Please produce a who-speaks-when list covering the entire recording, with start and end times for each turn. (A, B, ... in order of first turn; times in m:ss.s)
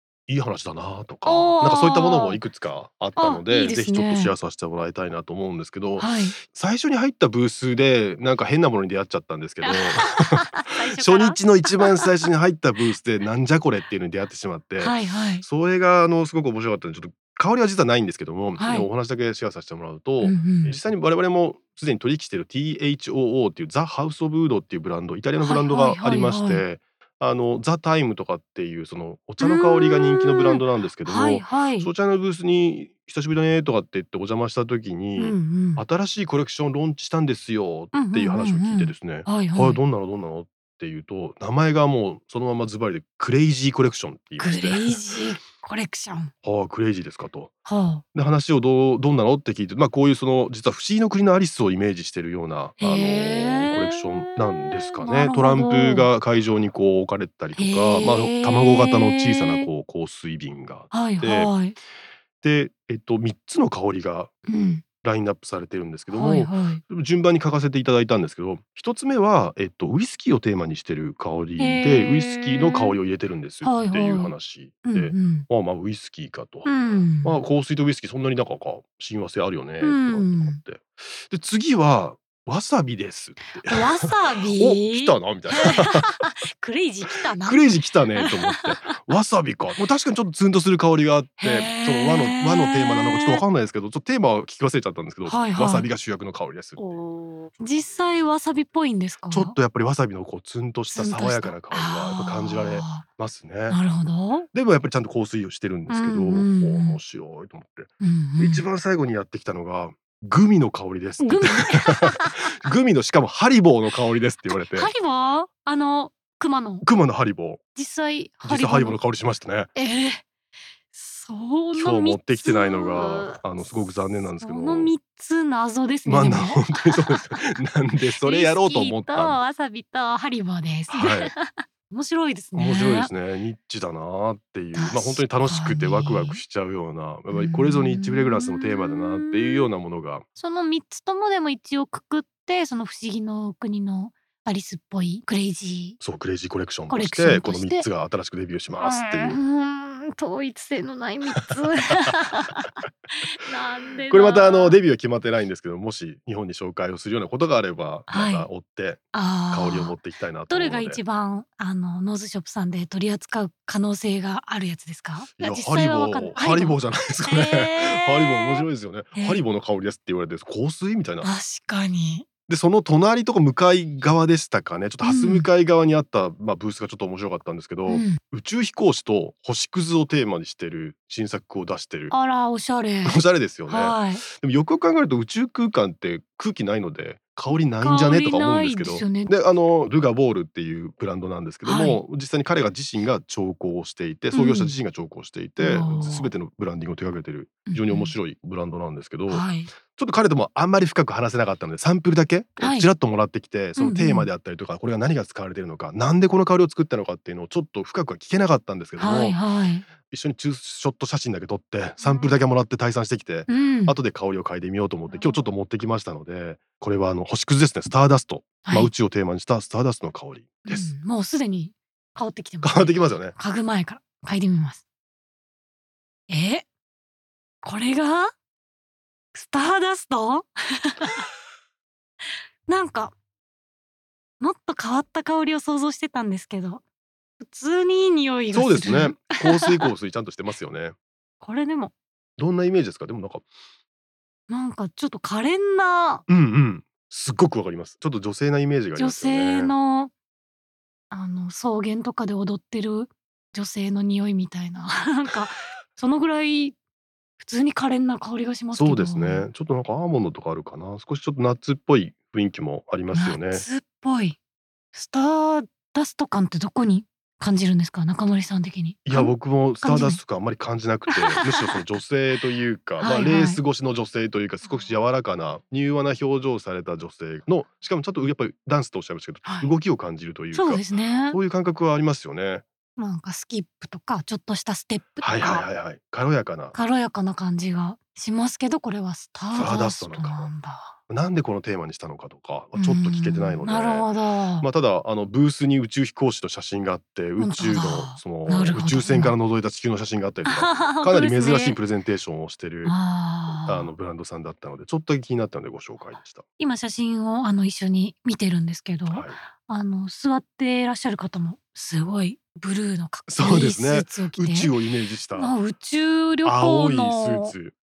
0:00.3-0:45.0 A
0:01.2-0:02.4 B
0:03.2-0:04.3 B
0:06.0-0:06.4 B
0:09.6-0:12.1 B
0:14.8-0:15.4 B
0:18.6-0:18.9 B
0:20.2-0:20.8 B
0:25.4-0:26.6 B
0:29.4-0:31.9 B
0:35.2-0:35.8 B
0:37.9-0:39.8 B
0:44.4-0:46.3 B
0:46.4-0:47.5 A
0:47.6-0:48.0 B
0:48.1-1:01.5 A
0:52.8-0:56.1 B
0:57.5-0:59.7 B
1:00.9-1:01.8 B
1:02.4-1:04.3 A
1:04.5-1:04.8 B
1:05.0-1:26.2 A
1:06.1-1:06.8 B
1:11.6-1:12.9 B
1:13.6-1:14.3 B
1:14.8-1:15.5 B
1:16.6-1:17.4 B
1:19.8-1:20.6 B
1:23.6-1:29.0 B
1:27.1-1:36.8 A
1:31.4-1:33.4 B
1:35.2-1:35.9 B
1:36.8-1:39.6 B
1:39.3-1:43.8 A
1:40.9-1:43.0 B
1:43.7-1:44.5 B
1:44.5-1:54.9 A
1:45.9-1:47.0 B
1:48.0-1:48.6 B
1:51.2-1:52.5 B
1:54.5-1:56.9 B
1:56.8-1:57.6 A
1:57.7-1:59.0 B
1:58.4-1:59.7 A
1:59.8-2:00.2 B
2:00.9-2:07.4 B
2:01.7-2:04.9 A
2:06.0-2:09.4 A
2:08.2-2:13.1 B
2:10.9-2:11.3 A
2:12.5-2:20.2 A
2:14.7-2:16.4 B
2:17.3-2:19.7 B
2:20.4-2:26.0 B
2:26.0-2:29.4 A
2:26.9-2:27.8 B
2:28.8-2:34.8 B
2:31.5-2:32.1 A
2:34.1-2:41.0 A
2:38.1-2:38.5 B
2:39.1-2:40.0 B
2:40.5-2:49.4 B
2:45.4-2:51.3 A
2:51.2-2:52.2 B
2:52.5-3:02.1 A
2:55.0-2:55.5 B
2:57.9-2:58.2 B
3:02.1-3:04.2 B
3:03.0-3:29.4 A
3:07.8-3:09.3 B
3:11.6-3:12.0 B
3:14.3-3:14.7 B
3:15.6-3:16.3 B
3:17.7-3:18.1 B
3:19.3-3:19.7 B
3:22.6-3:22.9 B
3:23.8-3:24.3 B
3:29.0-3:29.8 B
3:29.9-3:40.9 A
3:32.0-3:32.3 B
3:33.5-3:34.0 B
3:35.1-3:35.4 B
3:38.6-3:38.9 B
3:40.6-3:44.8 B
3:42.6-3:43.3 A
3:46.3-3:46.7 B
3:47.6-3:48.3 B
3:49.3-3:51.3 B
3:52.7-3:53.1 B
3:54.4-3:56.8 B
3:57.4-3:59.9 B
3:58.5-4:00.9 A
4:01.4-4:01.9 B
4:02.4-4:03.5 A
4:04.5-4:06.2 B
4:06.3-4:09.7 A
4:09.0-4:10.1 B
4:11.1-4:16.8 B
4:17.4-4:19.5 B
4:18.7-4:23.6 A
4:23.1-4:24.4 B
4:24.9-4:30.2 B
4:29.0-4:42.6 A
4:31.1-4:31.8 B
4:33.0-4:33.6 B
4:39.4-4:39.7 B
4:40.5-4:41.4 B
4:43.0-4:45.7 B
4:45.2-4:46.7 A
4:46.7-4:51.0 B
4:49.5-4:50.5 A
4:51.1-4:54.1 A
4:52.7-4:54.7 B
4:54.6-5:02.9 A
4:57.4-4:59.4 B
5:00.4-5:01.8 B
5:02.8-5:03.9 B
5:03.5-5:06.4 A
5:06.6-5:14.7 B
5:09.1-5:09.4 A
5:13.3-5:15.5 A
5:15.3-5:17.6 B
5:16.4-5:17.7 A